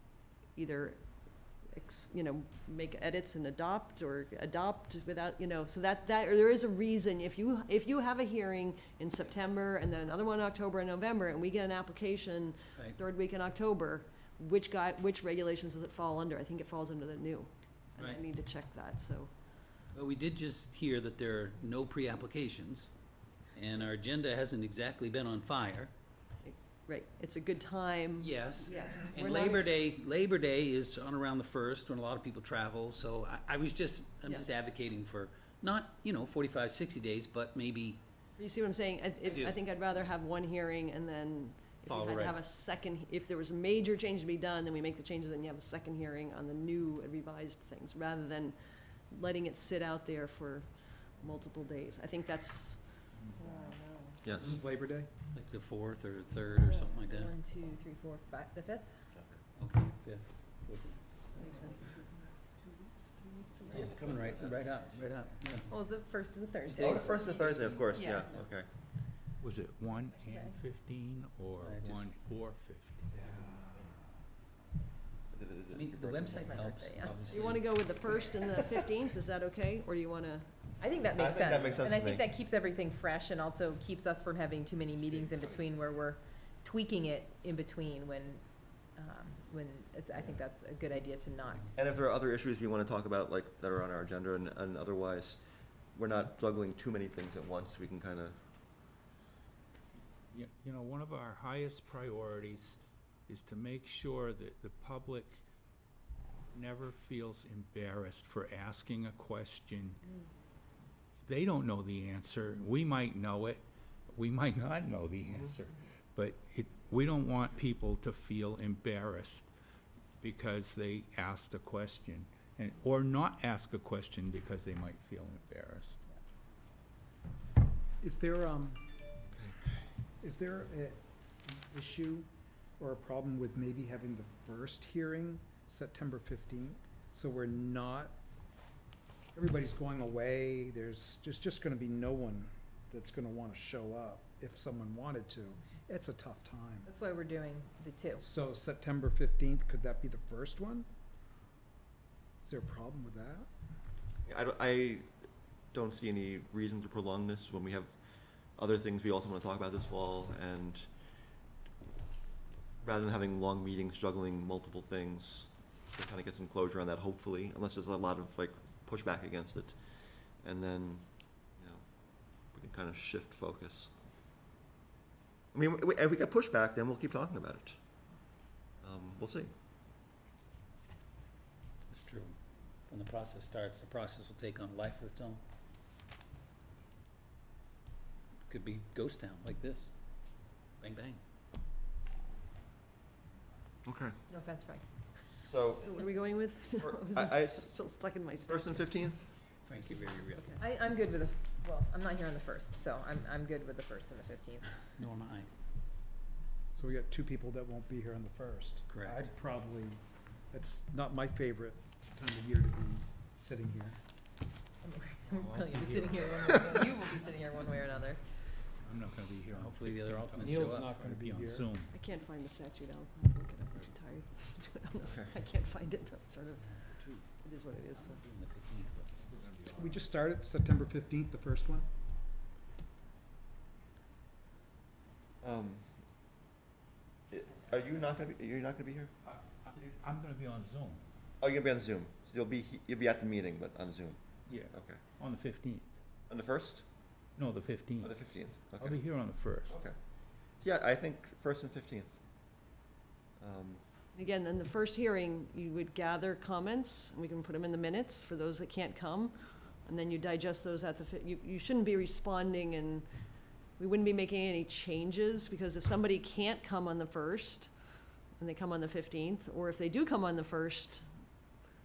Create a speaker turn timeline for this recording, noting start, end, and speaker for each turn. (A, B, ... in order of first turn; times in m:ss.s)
0:00.5-0:19.3 A
0:19.9-0:22.9 B
0:23.5-0:25.9 B
0:26.4-0:29.8 A
0:28.2-0:38.0 B
0:38.4-0:48.6 A
0:39.3-0:39.6 B
0:41.8-0:42.4 B
0:49.1-0:54.2 A
0:54.2-0:54.6 C
0:54.3-0:55.1 D
0:55.3-0:57.3 B
0:56.8-0:59.1 E
0:59.6-1:01.0 B
1:01.3-1:04.1 A
1:03.7-1:05.7 B
1:05.7-1:07.2 E
1:06.6-1:08.5 B
1:06.8-1:08.7 C
1:09.4-1:13.2 F
1:10.3-1:10.6 E
1:11.6-1:12.1 B
1:13.2-1:13.6 C
1:15.3-1:16.8 C
1:15.7-1:17.8 B
1:16.3-1:17.2 E
1:17.3-1:20.5 A
1:20.8-1:31.7 E
1:21.2-1:22.3 C
1:25.0-1:25.6 C
1:31.7-1:35.4 C
1:35.9-1:38.4 C
1:40.3-1:45.4 F
1:46.5-1:50.0 F
1:51.2-1:59.5 F
2:00.2-2:06.0 F
2:08.0-2:08.8 D
2:10.2-2:12.3 D
2:12.8-2:18.1 D
2:19.3-2:26.9 D
2:26.8-2:28.2 E
2:28.2-2:30.9 D
2:32.4-2:33.5 D
2:34.3-2:35.1 C
2:35.7-2:38.0 C
2:38.5-2:40.9 C
2:42.8-2:49.8 C
2:50.4-2:51.8 C
2:52.5-2:53.9 C
2:55.5-2:57.8 C
2:58.8-2:59.5 C
3:01.9-3:02.4 B
3:02.9-3:05.4 B
3:08.5-3:09.9 B
3:10.8-3:11.2 B
3:13.8-3:14.2 C
3:14.3-3:14.8 E
3:15.4-3:15.9 C
3:15.8-3:18.9 A
3:16.8-3:17.7 C
3:18.4-3:19.2 C
3:19.6-3:20.5 B
3:20.3-3:20.6 A
3:20.6-3:24.8 E
3:24.9-3:25.5 B
3:26.7-3:34.0 D
3:28.9-3:29.2 B
3:34.8-3:38.4 E
3:35.4-3:36.8 F
3:38.8-3:41.9 F
3:39.5-3:40.9 B
3:40.4-3:41.7 D
3:41.9-3:48.2 A
3:47.9-3:49.1 B
3:49.3-3:49.9 F
3:49.7-3:51.9 D
3:55.4-3:55.8 C
3:57.3-3:59.1 C
3:59.2-4:01.0 F
4:01.4-4:04.2 C
4:04.4-4:05.9 F
4:04.7-4:05.0 C
4:06.3-4:06.8 C
4:07.4-4:08.1 F
4:08.0-4:09.0 C
4:08.7-4:09.8 F
4:09.7-4:09.9 C
4:10.5-4:12.2 C
4:13.4-4:13.8 C
4:14.1-4:23.0 A
4:23.8-4:27.7 A
4:28.4-4:31.0 A